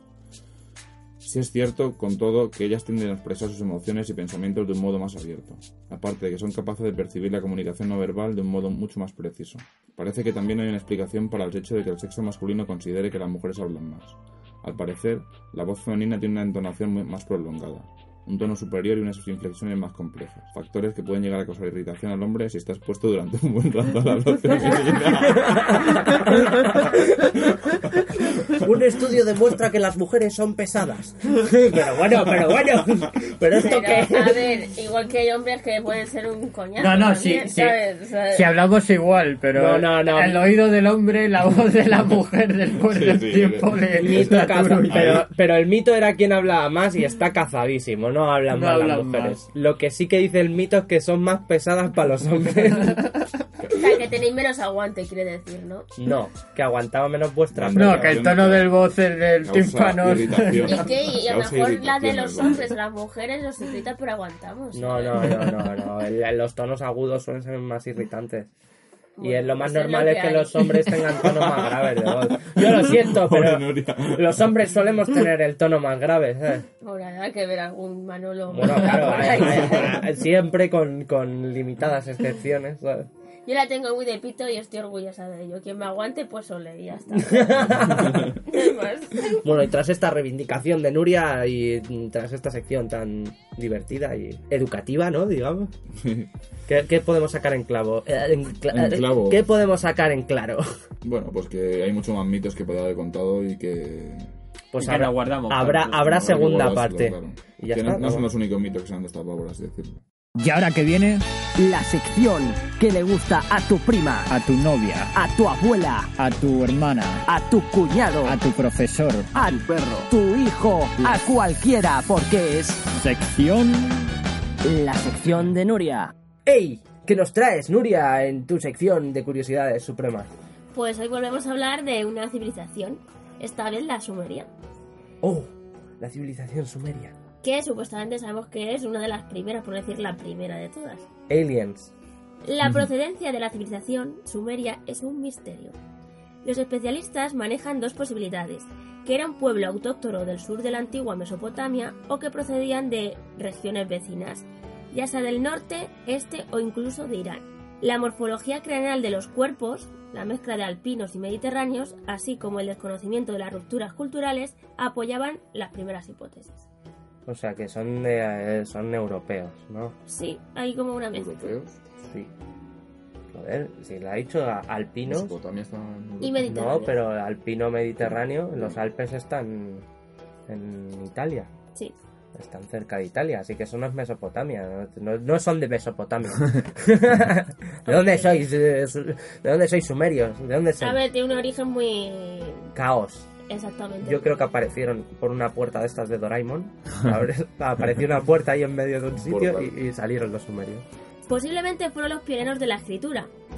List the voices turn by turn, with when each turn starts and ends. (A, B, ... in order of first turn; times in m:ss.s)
0:01.2-0:28.7 A
0:25.3-0:34.4 B
0:33.5-0:38.6 C
0:36.8-0:45.2 D
0:39.5-0:40.5 B
0:42.9-0:44.3 A
0:43.9-0:53.0 B
0:44.9-0:45.3 A
0:48.5-0:49.4 D
0:53.7-0:55.9 C
0:56.0-0:58.2 B
0:57.5-0:58.8 A
0:57.7-1:00.9 D
0:59.4-1:02.8 A
1:00.6-1:05.4 C
1:04.7-1:08.5 B
1:09.2-1:10.7 C
1:09.2-1:16.6 B
1:11.1-1:14.7 A
1:16.8-1:20.0 C
1:18.5-1:23.1 B
1:23.4-1:29.4 C
1:27.2-1:28.4 B
1:29.4-1:35.7 B
1:36.0-1:36.3 A
1:36.7-1:40.7 B
1:38.7-1:39.4 A
1:41.0-1:44.3 A
1:44.7-1:48.2 B
1:44.8-1:46.5 D
1:45.9-1:50.0 A
1:50.4-1:51.2 D
1:51.6-1:54.3 E
1:54.3-1:55.1 D
1:55.1-1:56.1 E
1:56.2-1:57.2 D
1:57.3-1:58.4 E
1:58.2-1:59.4 D
1:59.3-2:02.8 E
2:02.9-2:04.1 D
2:04.6-2:06.1 E
2:06.4-2:10.3 B
2:10.7-2:14.5 C
2:15.2-2:17.1 B
2:17.4-2:21.1 C
2:21.3-2:21.9 B
2:22.4-2:25.8 C
2:26.4-2:46.6 C
2:47.2-2:50.0 B
2:50.1-2:51.5 C
2:51.1-2:51.8 A
2:53.3-2:55.3 B
2:55.0-2:56.6 A
2:56.2-2:57.0 C
2:56.4-2:59.8 B
2:58.0-2:58.8 A
3:00.5-3:01.5 B
3:02.3-3:11.0 B
3:07.8-3:08.3 C
3:10.8-3:12.7 C
3:12.7-3:13.3 B
3:13.5-3:14.3 C
3:14.0-3:20.8 B
3:19.2-3:19.8 A
3:21.3-3:23.3 C